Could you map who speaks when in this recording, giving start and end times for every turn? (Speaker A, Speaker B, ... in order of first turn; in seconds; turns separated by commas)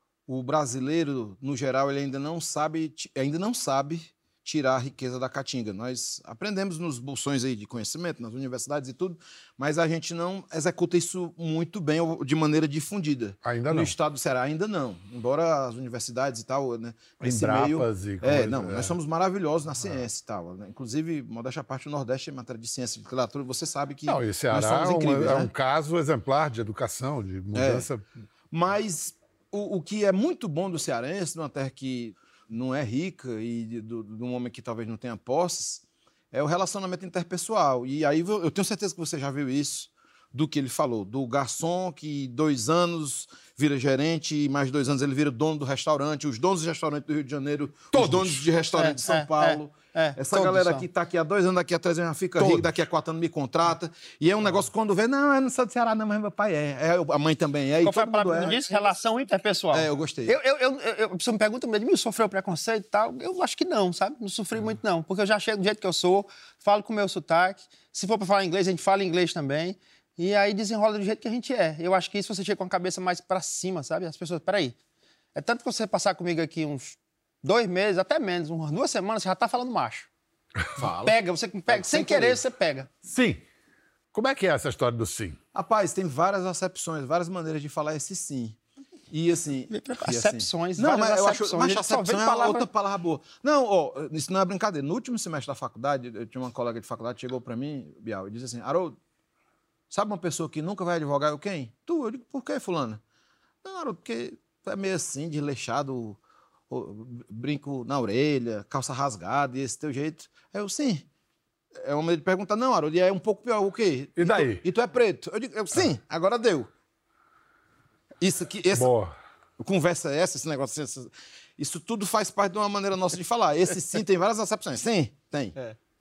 Speaker A: 0.3-25.5, Speaker B: 13.4-13.9, Speaker B: 17.2-18.9, Speaker B: 24.1-28.1, Speaker A: 27.6-27.9, Speaker A: 28.5-58.7, Speaker B: 47.9-48.5, Speaker C: 48.8-50.9, Speaker B: 52.4-52.7, Speaker C: 57.8-74.8, Speaker A: 59.7-60.3, Speaker C: 75.3-80.1, Speaker A: 80.8-81.2, Speaker C: 80.8-82.9, Speaker A: 81.7-82.4, Speaker B: 83.0-83.4, Speaker B: 84.1-85.4, Speaker A: 85.5-88.6, Speaker A: 89.1-99.0, Speaker C: 89.7-92.7, Speaker A: 99.9-103.0, Speaker A: 103.6-111.1, Speaker A: 111.8-116.7, Speaker B: 114.2-114.6, Speaker A: 118.2-118.9, Speaker B: 118.7-119.1, Speaker A: 119.6-125.6